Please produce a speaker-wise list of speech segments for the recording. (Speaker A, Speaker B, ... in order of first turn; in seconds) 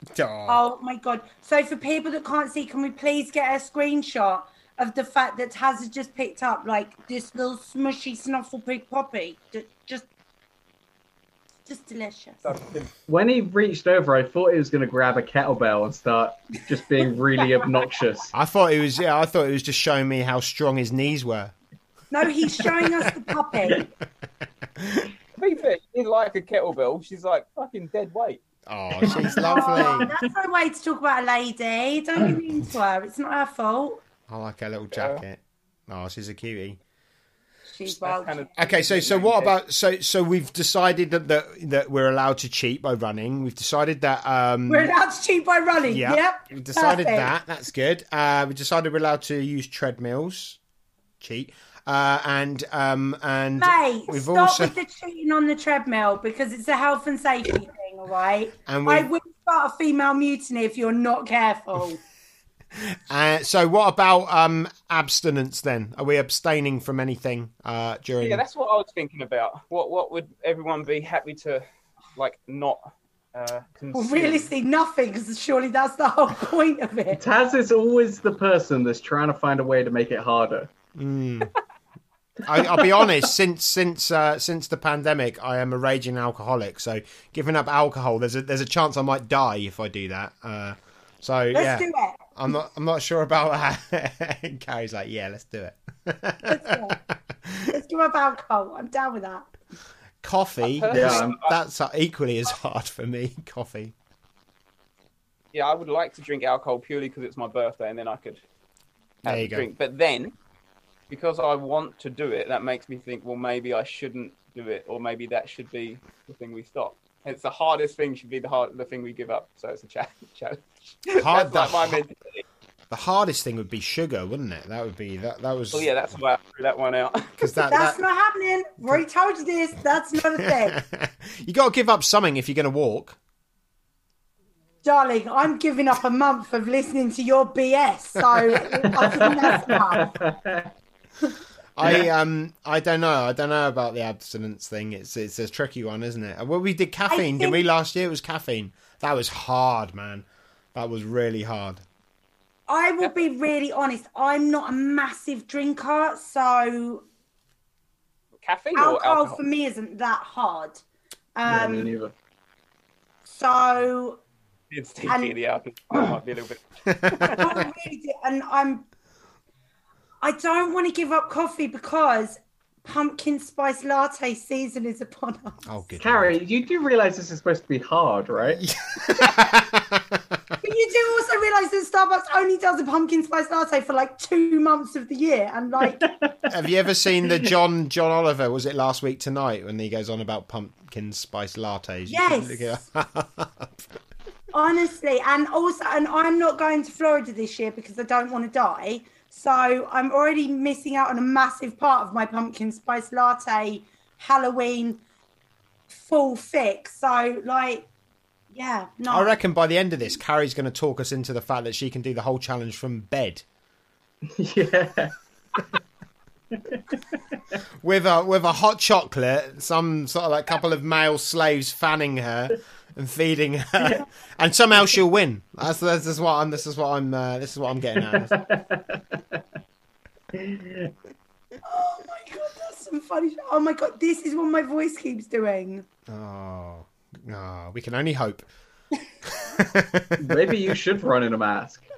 Speaker A: 0.1-0.6, 18.3-21.5, 24.8-25.1, 28.7-30.1, 34.3-36.8, 38.6-44.9, 45.9-50.6, 51.2-54.7, 58.6-59.1, 62.7-68.4, 81.0-81.5, 82.4-97.7, 100.2-103.9, 109.2-109.7, 121.1-122.0, 122.9-125.9, 127.4-128.0, 130.4-133.2, 138.2-138.6, 141.8-151.8, 166.9-167.4, 175.7-176.3, 178.6-180.4, 186.5-193.8, 209.1-213.4, 217.8-228.4, 236.1-238.4, 239.2-240.4
Speaker B: 0.5-10.1, 11.7-12.4, 22.1-23.9, 29.4-34.0, 37.7-38.5, 44.7-47.3, 53.6-62.0, 73.9-77.2, 91.5-92.2, 96.4-97.0, 97.7-99.5, 127.7-130.8, 134.8-140.2, 147.1-147.6, 152.7-157.1, 158.7-160.8, 161.3-161.9, 163.3-164.2, 165.0-165.3, 167.3-168.8, 170.2-175.6, 180.6-186.0, 192.1-192.8, 194.5-205.0, 205.9-207.9, 208.5-209.4, 231.6-235.9
Speaker C: 12.4-12.9, 25.4-28.4, 34.9-35.2, 37.9-39.5, 68.2-71.6, 72.2-74.5, 100.6-101.5, 105.5-108.4, 109.2-110.3, 111.1-122.4, 125.7-127.6, 158.4-159.4, 164.7-167.5
Speaker D: 13.1-18.3, 29.0-30.1, 77.1-80.7, 82.6-83.1, 100.9-101.3, 138.8-140.7, 161.5-162.1, 176.0-178.6, 185.8-186.7, 214.3-215.6, 216.5-217.2, 228.0-229.4, 230.3-230.9, 240.2-241.8